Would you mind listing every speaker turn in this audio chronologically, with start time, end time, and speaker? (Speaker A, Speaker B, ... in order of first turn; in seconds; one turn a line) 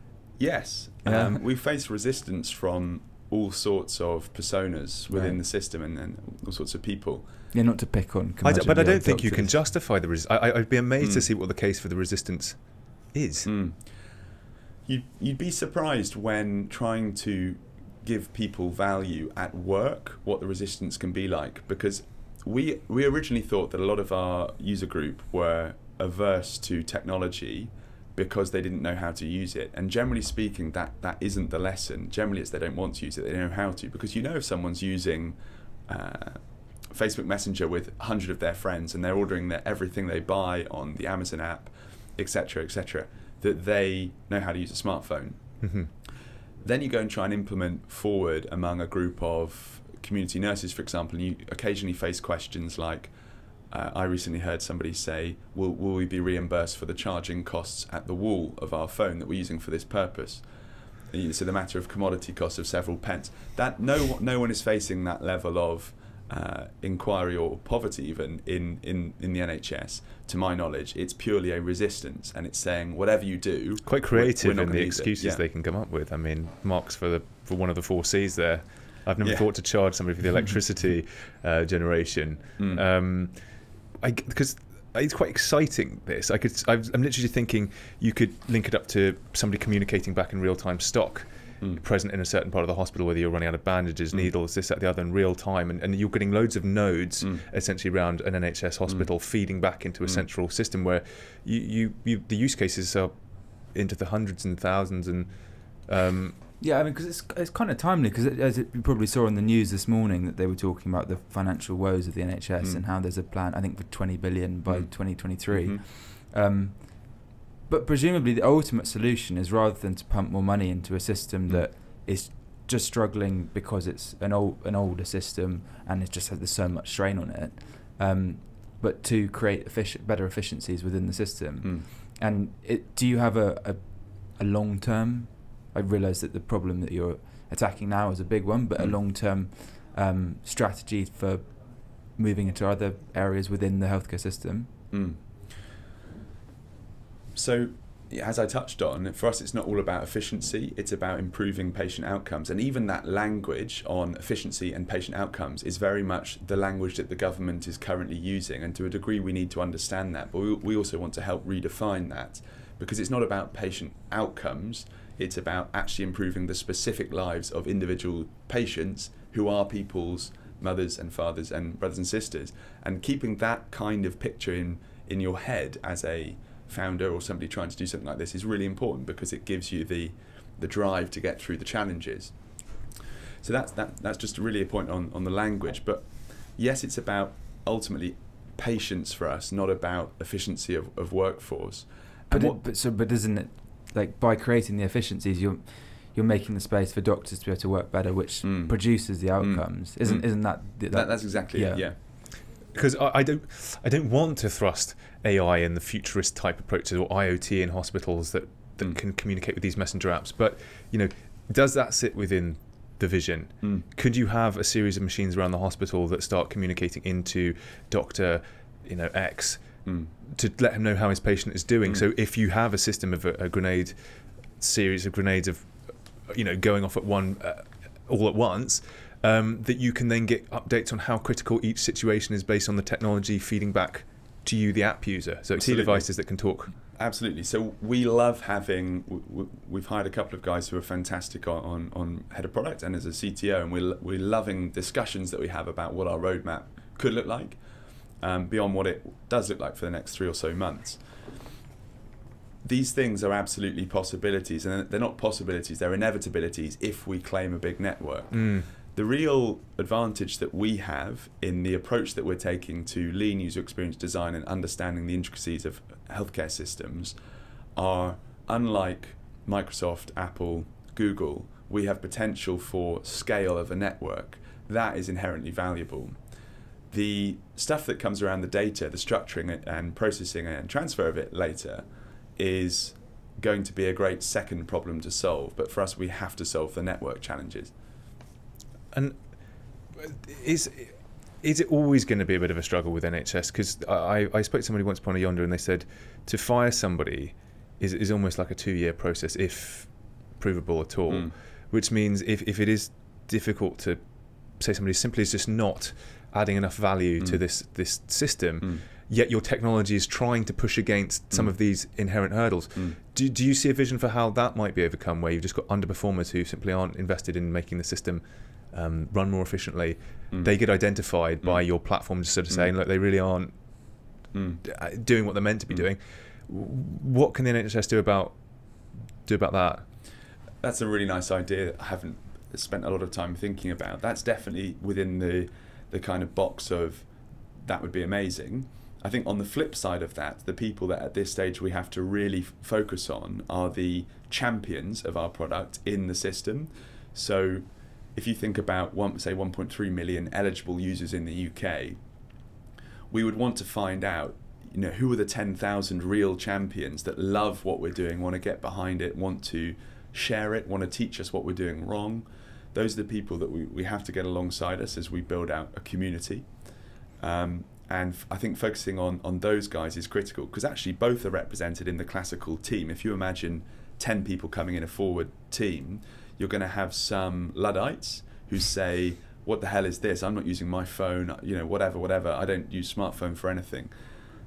Speaker A: 0.4-7.3
Speaker B: 1.0-1.4
Speaker B: 5.1-5.4
Speaker B: 7.5-9.5
Speaker C: 8.4-13.5
Speaker A: 11.0-11.3
Speaker A: 13.4-14.0
Speaker A: 14.8-35.4
Speaker A: 35.9-45.4
Speaker C: 45.6-45.9
Speaker A: 46.6-53.1
Speaker A: 53.7-60.4
Speaker A: 61.1-75.4
Speaker C: 73.8-106.4
Speaker A: 79.2-79.5
Speaker A: 82.6-82.8
Speaker B: 106.6-144.7
Speaker A: 114.7-115.8
Speaker A: 144.9-145.2
Speaker A: 147.3-182.8
Speaker A: 183.4-192.6
Speaker B: 192.3-201.9
Speaker A: 198.4-202.0
Speaker C: 202.1-236.7
Speaker A: 219.8-220.1
Speaker A: 235.5-236.1
Speaker A: 236.9-247.6
Speaker A: 248.2-251.0
Speaker A: 252.6-267.1
Speaker C: 258.3-258.7
Speaker A: 267.8-276.1
Speaker A: 276.9-287.7
Speaker C: 288.9-324.0
Speaker A: 324.3-324.6
Speaker C: 324.6-329.9
Speaker A: 330.6-337.1
Speaker A: 337.6-352.0
Speaker A: 353.1-366.5
Speaker A: 367.2-383.9